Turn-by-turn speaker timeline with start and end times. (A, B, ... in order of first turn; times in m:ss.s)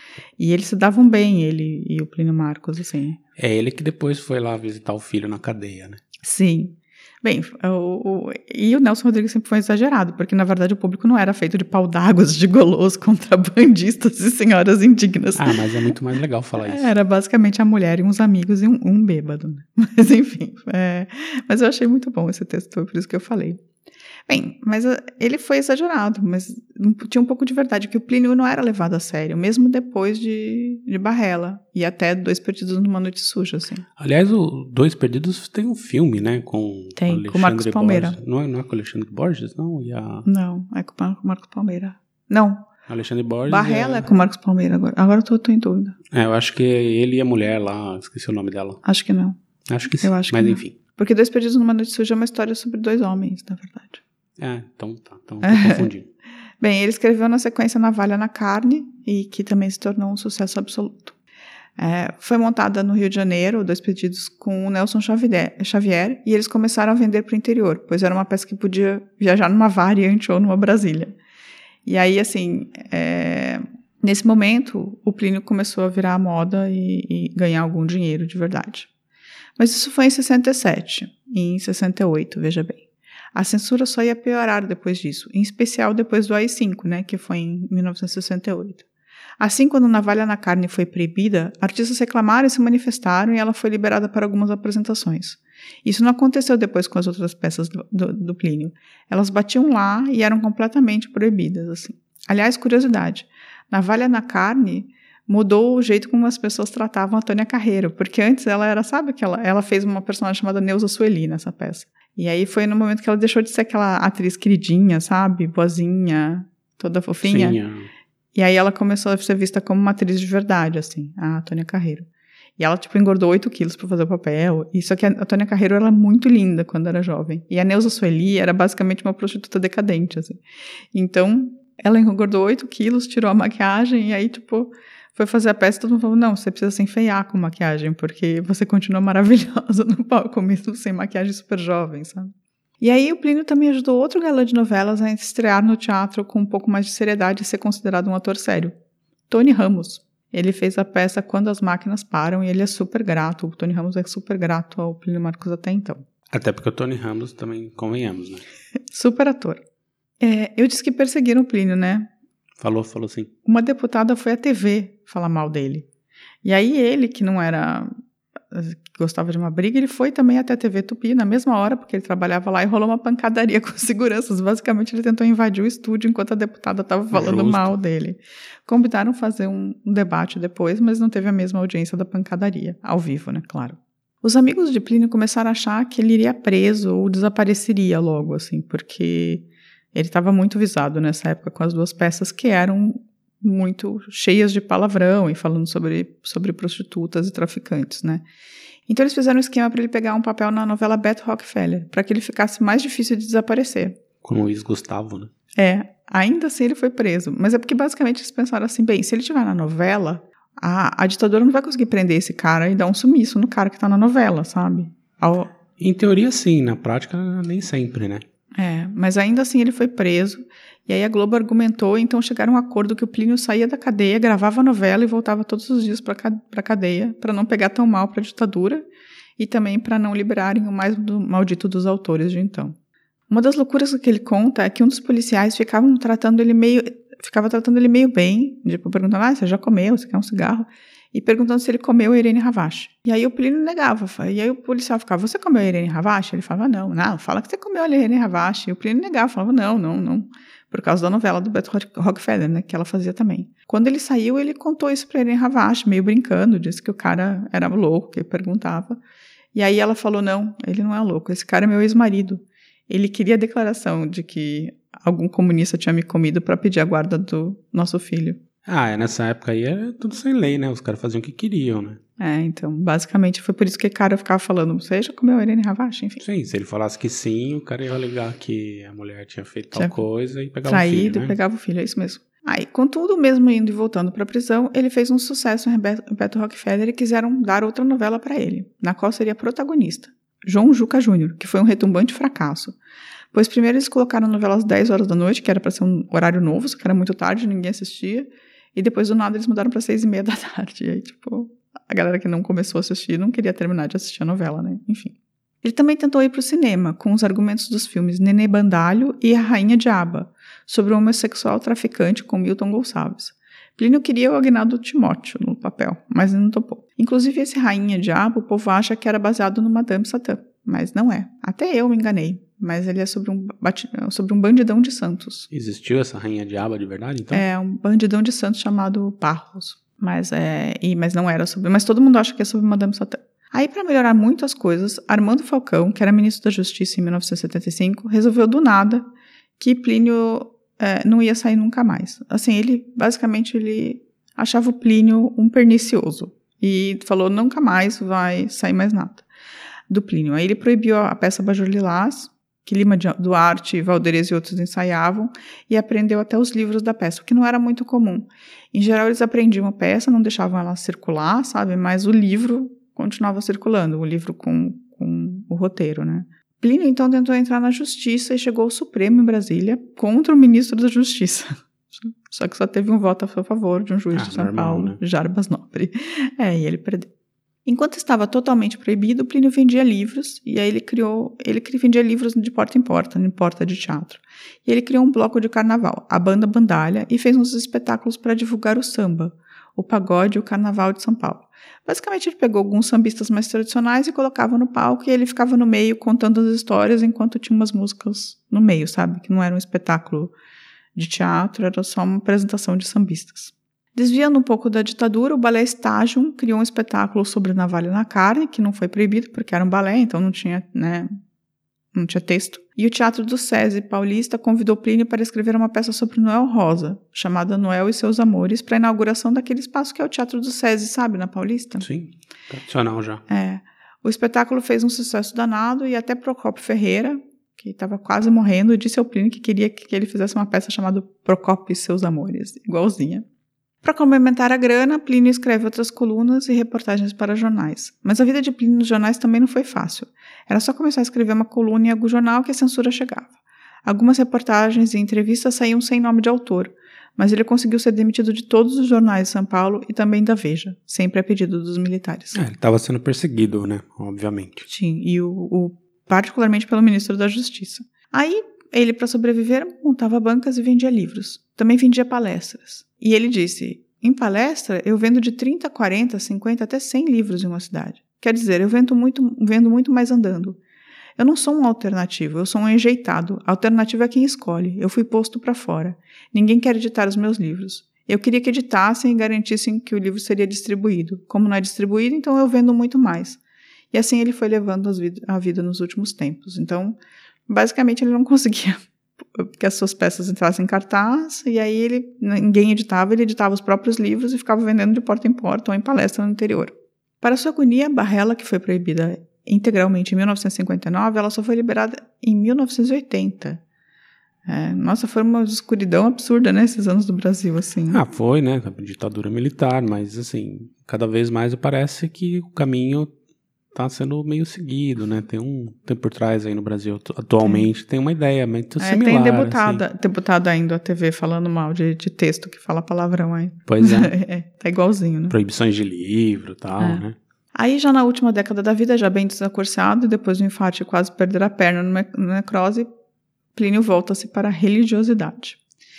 0:00.4-0:03.2 A
0:03.4-0:06.0 B
0:06.2-0:15.6 A
0:15.4-0:16.9 B
0:16.6-0:23.6 A
0:24.3-0:33.9 A
0:34.0-0:40.3 B
0:37.0-0:38.2 A
0:40.3-0:42.7 A
0:42.9-0:44.1 B
0:43.5-0:46.0 A
0:46.1-0:48.8 B
0:48.8-0:49.4 A
0:49.7-0:50.8 B
0:50.0-0:54.0 A
0:54.4-0:56.1 B
0:55.4-0:55.9 A
0:56.6-1:01.2 A
1:01.8-1:11.2 A
1:11.8-1:18.9 A
1:19.6-1:28.8 A
1:29.4-1:57.6 A
1:57.2-1:57.9 B
1:58.3-2:10.4 A
2:10.9-2:28.7 A
2:29.3-2:36.0 A
2:36.3-2:38.5 B
2:38.9-2:39.6 A
2:40.2-2:42.1 A
2:42.6-2:43.3 B
2:43.5-2:45.9 A
2:46.4-2:47.9 A
2:48.5-3:18.2 A
2:57.1-2:57.8 B
3:18.9-3:24.0 A
3:24.2-3:25.3 B
3:25.6-3:35.5 A
3:35.8-3:38.2 B
3:38.6-3:48.9 A
3:49.4-3:52.8 A
3:53.3-4:19.0 A
4:19.5-4:28.4 A
4:28.7-4:32.0 B
4:32.2-4:36.2 A
4:36.2-4:41.4 B
4:40.7-4:52.8 A
4:53.3-5:25.5 A
5:25.5-5:27.4 B
5:27.3-5:39.1 A
5:39.6-5:49.2 A
5:49.9-6:17.1 A
6:14.1-6:15.0 B
6:17.7-6:40.3 A
6:41.0-6:51.1 A
6:51.9-7:01.9 A
7:01.8-7:03.2 B
7:03.3-7:13.2 A
7:13.8-7:23.3 A
7:23.8-7:32.4 A
7:32.3-7:34.7 B
7:34.7-7:50.6 A
7:51.2-8:03.4 A
8:03.9-8:07.0 A
8:07.5-8:08.8 A
8:09.4-8:23.6 A
8:24.5-8:28.0 A
8:27.9-8:33.1 B
8:33.7-8:39.8 B
8:37.4-8:37.7 A
8:38.8-8:45.4 A
8:43.7-8:44.1 B
8:45.3-8:47.2 B
8:46.8-8:52.9 A
8:53.6-8:55.6 A